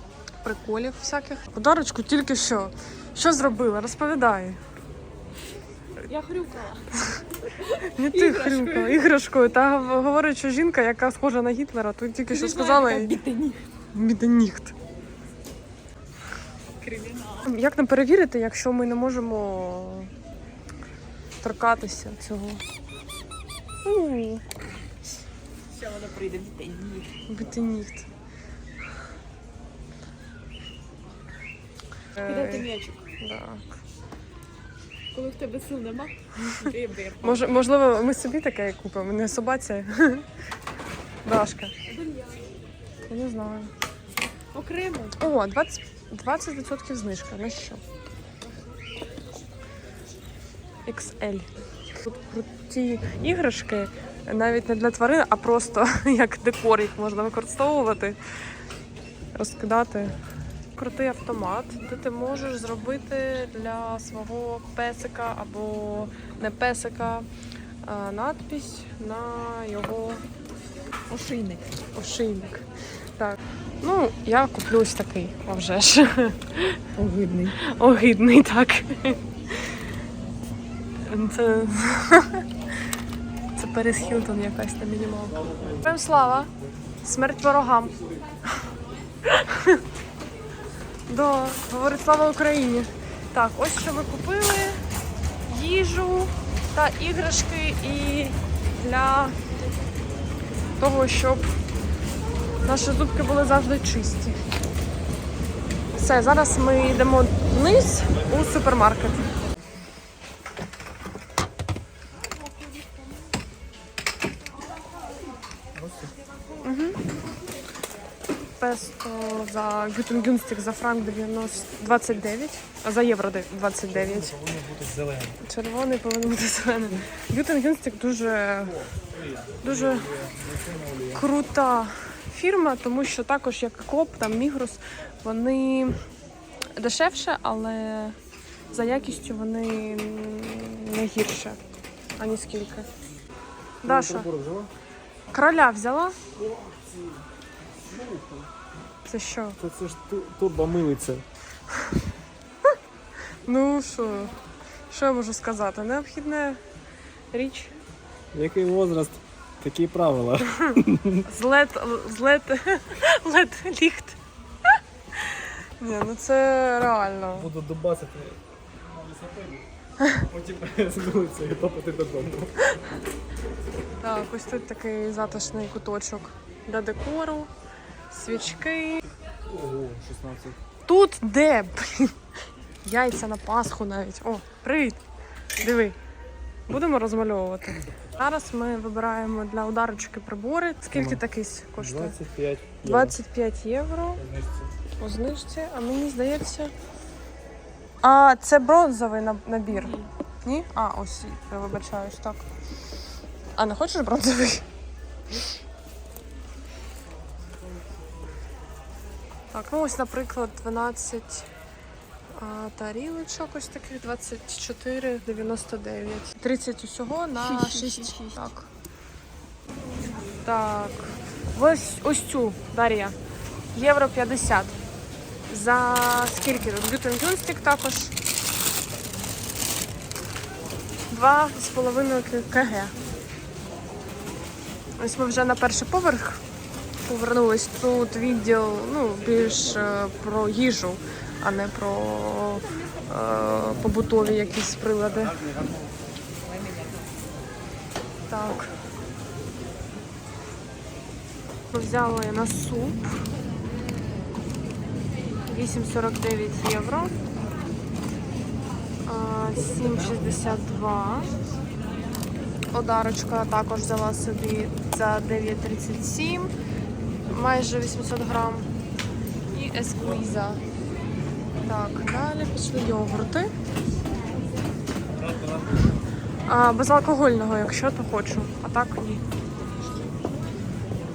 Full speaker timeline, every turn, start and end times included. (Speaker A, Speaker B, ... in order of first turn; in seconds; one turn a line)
Speaker A: 0.4-4.6
Speaker B: 6.0-9.0
Speaker A: 7.9-13.2
Speaker B: 12.3-13.6
Speaker A: 13.9-14.7
Speaker B: 16.8-17.4
Speaker A: 17.4-20.1
Speaker A: 21.4-22.6
Speaker A: 23.8-24.4
Speaker B: 25.7-27.1
Speaker A: 27.3-28.1
Speaker A: 32.1-33.8
Speaker B: 32.2-33.0
Speaker B: 35.1-37.5
Speaker A: 37.2-40.2
Speaker A: 41.2-41.7
Speaker B: 41.9-42.4
Speaker A: 43.1-43.7
Speaker B: 44.5-45.2
Speaker A: 45.2-47.8
Speaker A: 50.9-58.2
Speaker A: 59.3-60.1
Speaker A: 60.8-67.3
Speaker A: 67.8-70.2
Speaker B: 71.1-71.8
Speaker A: 71.9-76.8
Speaker B: 77.0-77.6
Speaker A: 77.6-79.8
Speaker A: 81.0-82.5
Speaker A: 83.5-86.5
Speaker A: 87.0-88.0
Speaker A: 89.2-89.8
Speaker A: 91.1-94.8
Speaker A: 95.5-99.3
Speaker A: 100.8-101.5
Speaker A: 102.6-104.4
Speaker A: 105.9-109.3
Speaker C: 115.7-116.1
Speaker A: 116.6-117.0
Speaker A: 118.6-124.3
Speaker C: 123.9-125.4
Speaker A: 125.4-128.8
Speaker C: 129.0-131.3
Speaker A: 129.6-130.1
Speaker A: 131.1-136.0
Speaker A: 136.8-138.2
Speaker A: 138.7-141.6
Speaker A: 142.2-142.9
Speaker A: 143.8-144.3
Speaker C: 143.8-144.7
Speaker A: 145.3-146.2
Speaker C: 146.3-147.2
Speaker C: 147.8-148.5
Speaker A: 149.1-149.6
Speaker C: 149.6-151.2
Speaker A: 153.4-154.3
Speaker A: 154.9-156.6
Speaker A: 157.3-157.7
Speaker C: 158.3-161.2
Speaker A: 161.2-167.5
Speaker C: 167.3-169.7
Speaker C: 170.2-172.5
Speaker A: 174.0-177.5
Speaker A: 178.1-179.0
Speaker C: 179.5-180.6
Speaker A: 180.8-182.1
Speaker A: 182.8-185.0
Speaker A: 185.6-186.0
Speaker A: 186.7-192.2
Speaker C: 190.9-191.2
Speaker C: 191.8-193.2
Speaker A: 192.8-194.2
Speaker C: 194.2-194.7
Speaker A: 195.0-196.7
Speaker A: 198.0-202.5
Speaker B: 199.7-200.1
Speaker A: 203.6-204.7
Speaker A: 209.5-211.5
Speaker A: 212.3-218.7
Speaker B: 217.4-218.4
Speaker A: 220.4-223.2
Speaker A: 223.7-224.8
Speaker A: 225.5-228.1
Speaker A: 231.1-232.9
Speaker A: 235.0-236.4
Speaker A: 237.1-245.4
Speaker A: 248.3-248.7
Speaker A: 251.7-253.2
Speaker A: 255.4-257.1
Speaker A: 259.1-261.3
Speaker A: 262.7-266.5
Speaker A: 267.3-268.7
Speaker A: 269.5-270.6
Speaker A: 271.6-273.5
Speaker C: 275.1-275.9
Speaker A: 276.5-279.2